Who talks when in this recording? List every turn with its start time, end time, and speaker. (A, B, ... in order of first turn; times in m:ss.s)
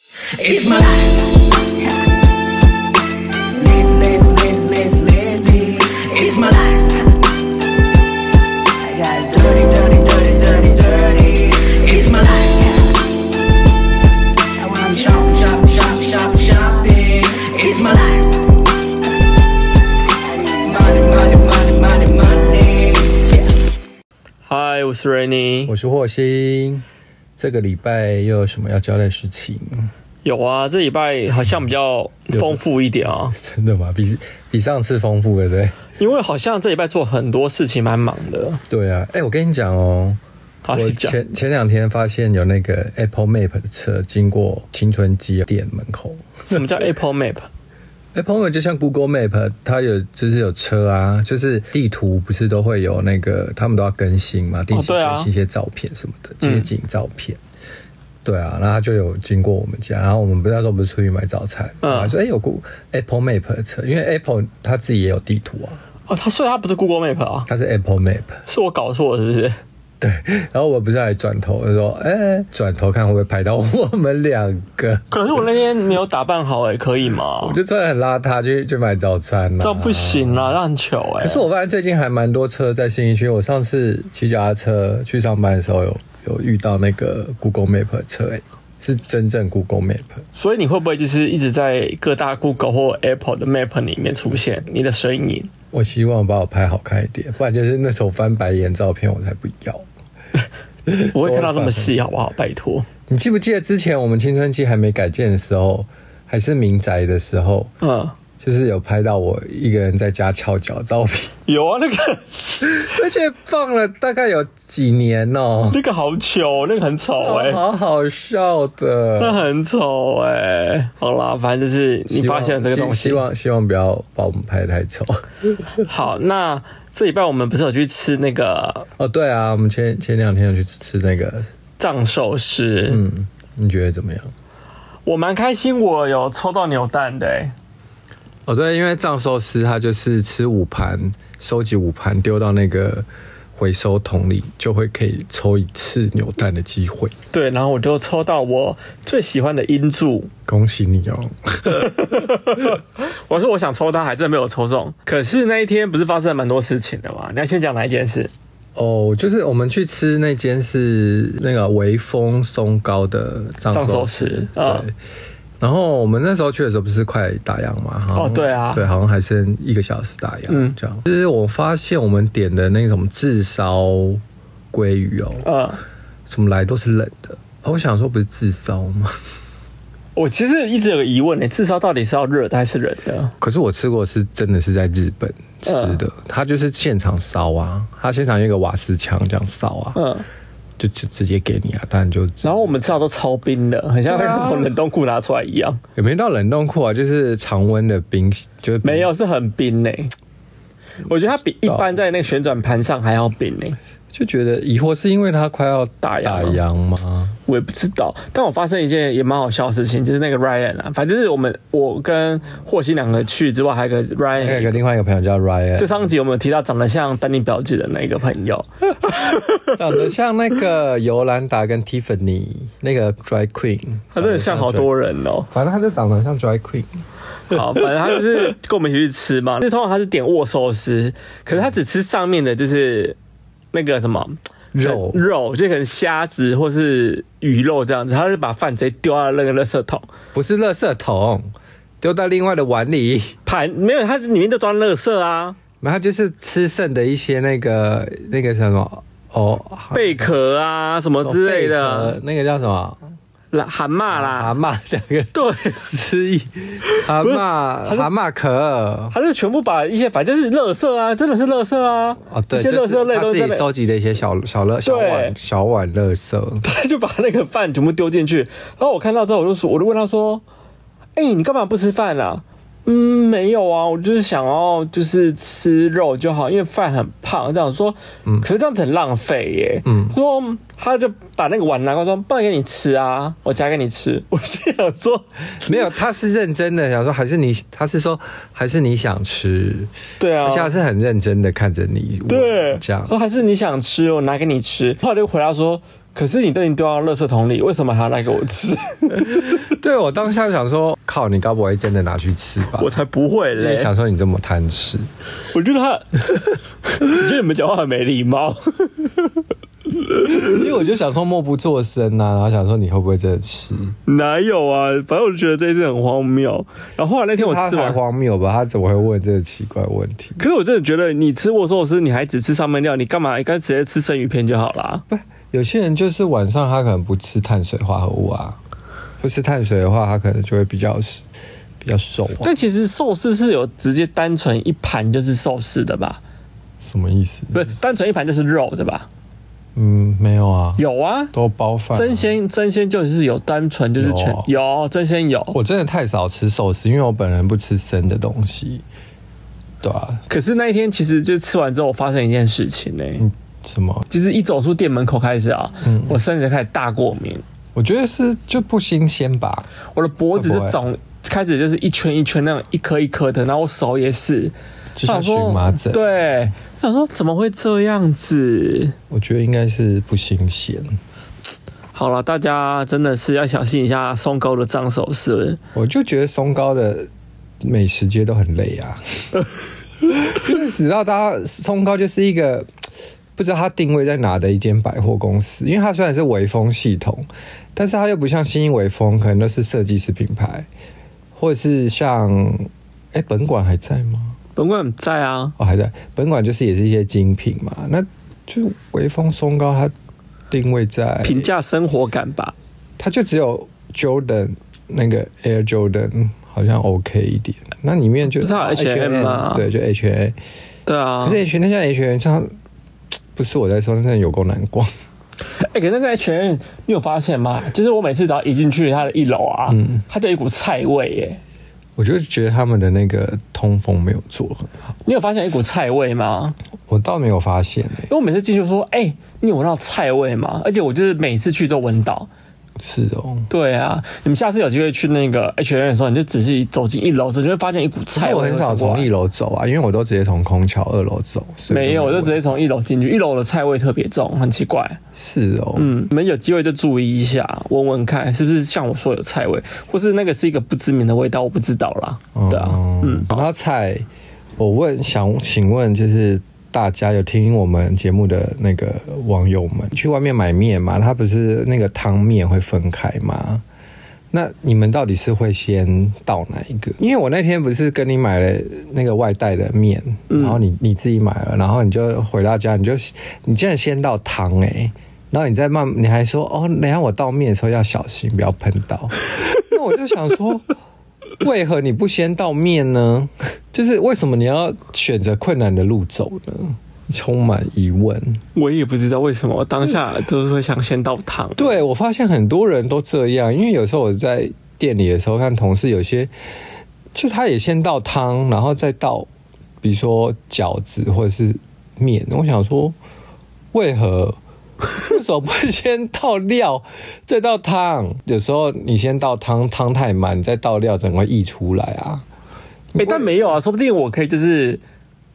0:00.3-0:01.5 A
0:03.5-0:07.1 A
0:08.7-0:13.0 A
0:14.6-0:18.5 A
0:20.2-0:23.5 A
0:24.4-0:25.7 B
0:25.7-0:26.8 C
0:27.4-0:29.9 C
0:30.2-0:33.4 B
0:32.3-0:32.6 C
0:33.3-0:35.8 C
0:36.0-0:38.6 B
0:38.7-0:40.2 C
0:40.6-0:41.2 B
0:40.7-0:46.6 C
0:46.4-0:47.5 B
0:48.1-0:57.4 C
0:54.7-0:55.3 B
0:56.4-0:56.7 B
0:58.2-1:05.8 C
1:01.8-1:02.1 B
1:06.1-1:07.5 B
1:07.5-1:08.4 C
1:08.5-1:09.6 B
1:10.0-1:15.0 C
1:15.1-1:17.6 B
1:17.4-1:20.6 C
1:19.6-1:21.4 B
1:21.2-1:30.2 C
1:30.3-1:35.5 B
1:35.7-1:39.8 C
1:40.8-1:42.1 C
1:40.9-1:42.9 B
1:43.1-1:47.7 C
1:47.8-1:48.2 B
1:48.4-1:51.4 C
1:51.4-1:52.8 B
1:52.6-1:55.8 C
1:55.7-1:57.6 B
1:57.1-1:59.4 C
1:59.2-2:03.2 B
2:02.1-2:05.3 C
2:05.8-2:08.9 B
2:09.0-2:11.5 C
2:11.8-2:13.0 B
2:12.9-2:14.3 C
2:15.0-2:17.5 B
2:18.4-2:27.1 C
2:27.3-2:30.3 B
2:30.5-2:32.3 C
2:31.7-2:38.3 B
2:38.8-2:44.9 C
2:43.7-2:44.9 B
2:45.6-2:55.4 C
2:48.1-2:48.9 B
2:50.5-2:50.8 B
2:55.4-2:55.8 B
2:56.3-2:59.1 C
3:00.2-3:03.3 B
3:03.4-3:10.0 C
3:05.6-3:06.0 B
3:09.9-3:10.2 B
3:10.8-3:12.9 C
3:12.4-3:15.8 B
3:14.1-3:14.7 C
3:16.0-3:19.1 C
3:18.8-3:20.1 B
3:21.0-3:23.8 B
3:21.6-3:21.9 C
3:24.1-3:27.4 C
3:26.0-3:26.6 B
3:27.5-3:34.8 B
3:34.4-3:36.1 C
3:35.8-3:39.8 B
3:39.7-3:44.9 C
3:44.1-3:45.5 B
3:45.5-3:46.9 C
3:47.5-3:53.2 B
3:53.7-4:00.1 B
3:54.7-3:55.2 C
4:00.3-4:03.4 C
4:03.4-4:05.6 B
4:05.8-4:10.3 C
4:09.9-4:12.2 B
4:11.2-4:13.0 C
4:13.5-4:14.5 B
4:14.1-4:19.1 C
4:15.3-4:15.8 B
4:16.8-4:18.1 B
4:19.1-4:23.7 B
4:22.2-4:26.6 C
4:24.8-4:25.3 B
4:26.6-4:30.4 B
4:31.2-4:45.8 B
4:39.8-4:40.2 C
4:45.6-4:53.1 C
4:50.2-4:50.7 B
4:52.3-4:59.6 B
4:59.2-5:02.9 C
5:02.8-5:03.9 B
5:03.5-5:05.1 C
5:05.5-5:09.1 B
5:10.2-5:10.5 B
5:10.2-5:14.0 C
5:14.0-5:18.0 B
5:17.3-5:20.4 C
5:20.4-5:25.0 B
5:25.1-5:28.6 C
5:29.2-5:31.2 C
5:31.8-5:32.5 C
5:32.4-5:36.2 B
5:36.8-5:37.7 C
5:37.5-5:39.1 B
5:39.7-5:40.8 C
5:40.8-5:41.3 B
5:41.3-5:42.3 C
5:41.9-5:45.6 B
5:44.0-5:44.5 C
5:45.5-5:48.8 C
5:49.8-5:50.2 C
5:50.3-5:53.2 B
5:53.2-5:54.1 C
5:54.1-5:57.4 B
5:55.8-5:56.2 C
5:57.7-5:59.7 C
5:59.9-6:04.5 B
6:00.3-6:00.8 C
6:05.0-6:06.0 C
6:05.0-6:08.9 B
6:09.1-6:11.0 C
6:11.9-6:15.6 B
6:15.7-6:17.1 C
6:17.6-6:19.3 C
6:20.1-6:22.7 C
6:23.4-6:30.7 C
6:31.4-6:34.4 C
6:34.6-6:35.5 B
6:35.6-6:39.9 C
6:40.5-6:41.5 C
6:41.2-6:42.5 B
6:43.0-6:50.4 C
6:48.4-6:49.7 B
6:50.8-6:51.4 B
6:51.2-6:52.5 C
6:53.3-6:54.9 C
6:55.6-7:01.4 B
6:59.7-7:00.0 C
7:02.0-7:04.7 C
7:05.0-7:06.6 B
7:06.9-7:08.1 C
7:08.1-7:12.3 B
7:12.8-7:13.5 C
7:13.5-7:19.1 B
7:18.1-7:22.4 C
7:21.7-7:25.0 B
7:25.1-7:25.9 C
7:25.7-7:33.5 B
7:32.3-7:34.0 C
7:34.6-7:43.6 C
7:44.3-8:00.7 C
7:50.3-7:50.6 B
8:01.4-8:08.4 C
8:08.5-8:11.8 B
8:11.6-8:16.3 C
8:17.1-8:19.3 C
8:19.8-8:22.9 C
8:23.7-8:24.4 C
8:24.9-8:32.2 C
8:32.9-8:33.4 C
8:33.0-8:34.8 B